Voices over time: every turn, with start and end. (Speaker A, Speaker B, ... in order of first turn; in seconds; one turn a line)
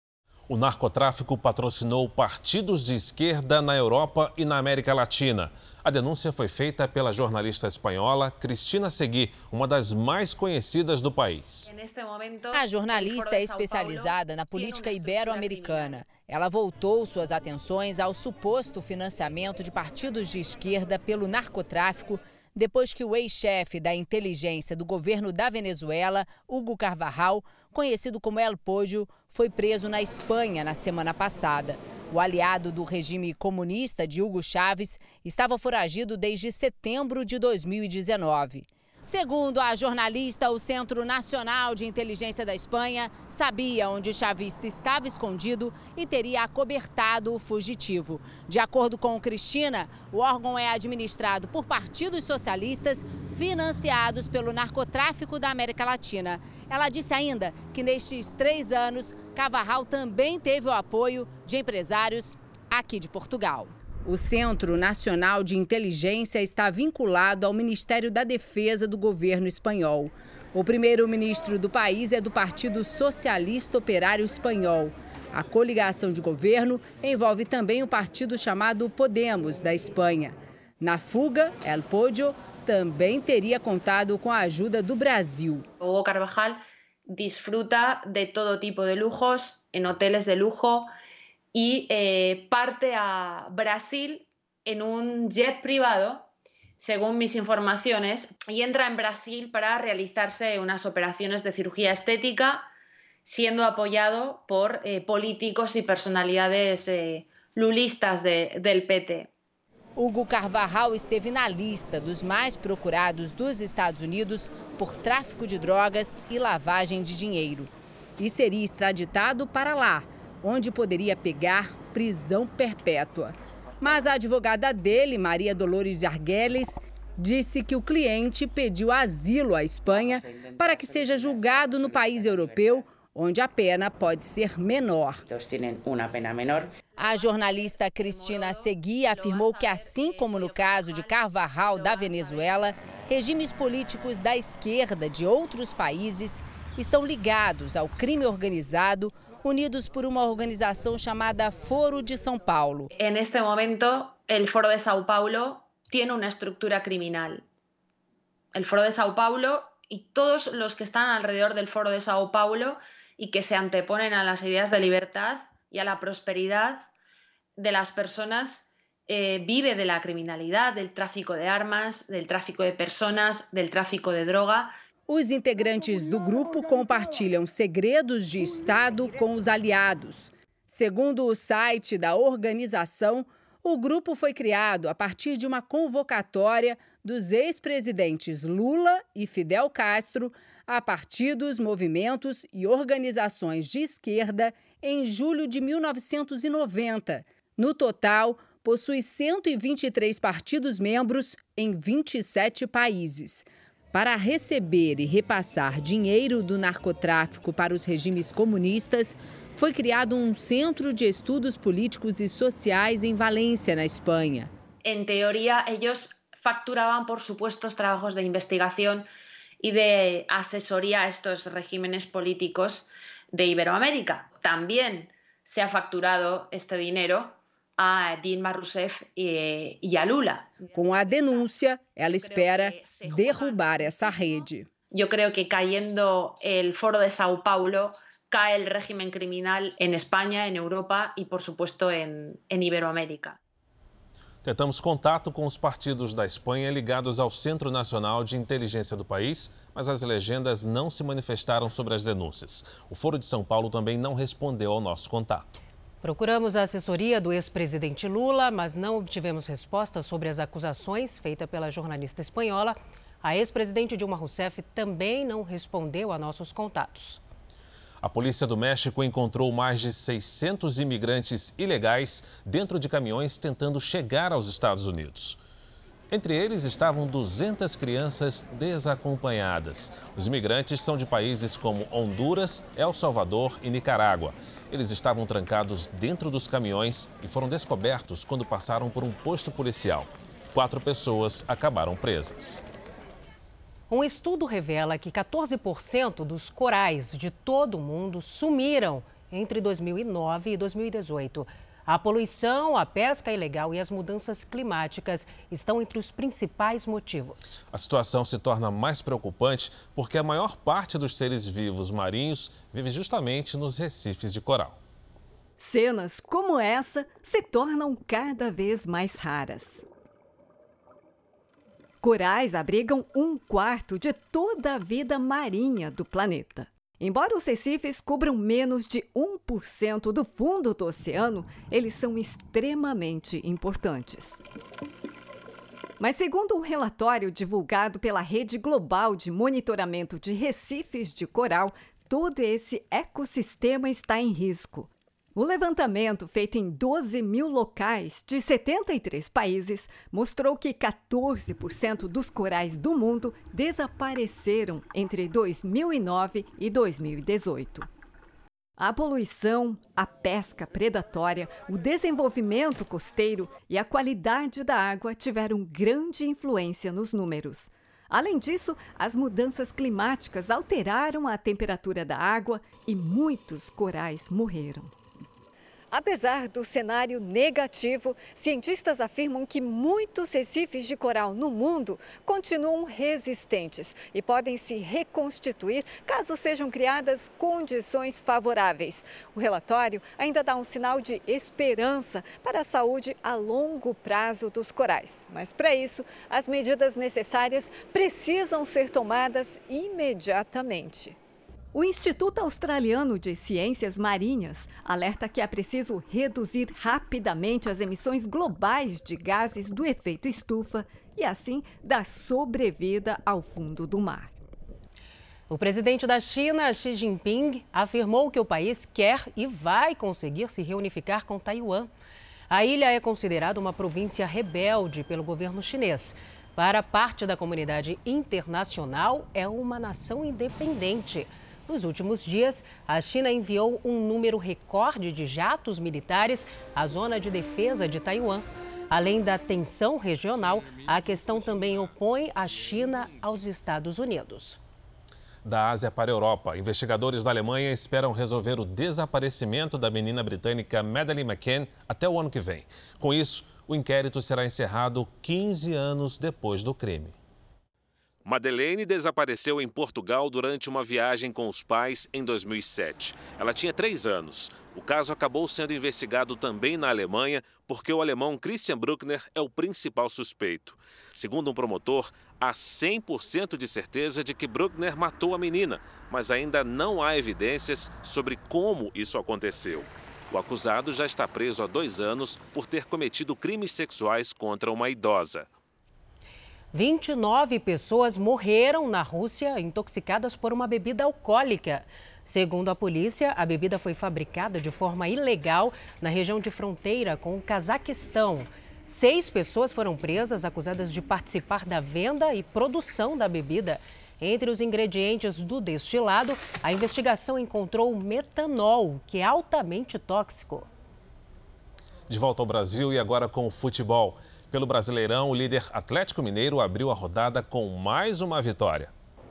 Speaker A: 0.5-11.7
Speaker B: 11.7-16.0
Speaker C: 12.5-85.7
Speaker B: 85.8-90.9
Speaker B: 91.5-96.3
Speaker B: 96.8-102.7
Speaker B: 103.3-109.3
Speaker C: 110.0-135.2
Speaker C: 137.0-152.9
Speaker B: 137.0-142.8
Speaker B: 153.0-157.4
Speaker B: 158.5-166.9
Speaker B: 167.6-174.7
Speaker C: 175.1-214.5
Speaker B: 214.8-219.1
Speaker B: 219.6-231.5
Speaker C: 230.7-234.7
Speaker B: 232.0-243.4
Speaker A: 244.4-255.6
Speaker D: 256.0-267.2
Speaker A: 268.0-275.4
Speaker A: 276.1-292.6
Speaker D: 293.9-307.6
Speaker A: 307.7-314.8
Speaker E: 315.6-319.8
Speaker E: 322.0-334.4
Speaker E: 336.0-357.9
Speaker E: 358.8-374.9
Speaker E: 375.9-401.2
Speaker E: 401.7-414.4
Speaker D: 415.5-421.9
Speaker D: 422.5-444.6
Speaker A: 445.4-457.1
Speaker A: 458.2-485.5
Speaker D: 486.7-510.7
Speaker A: 512.1-518.9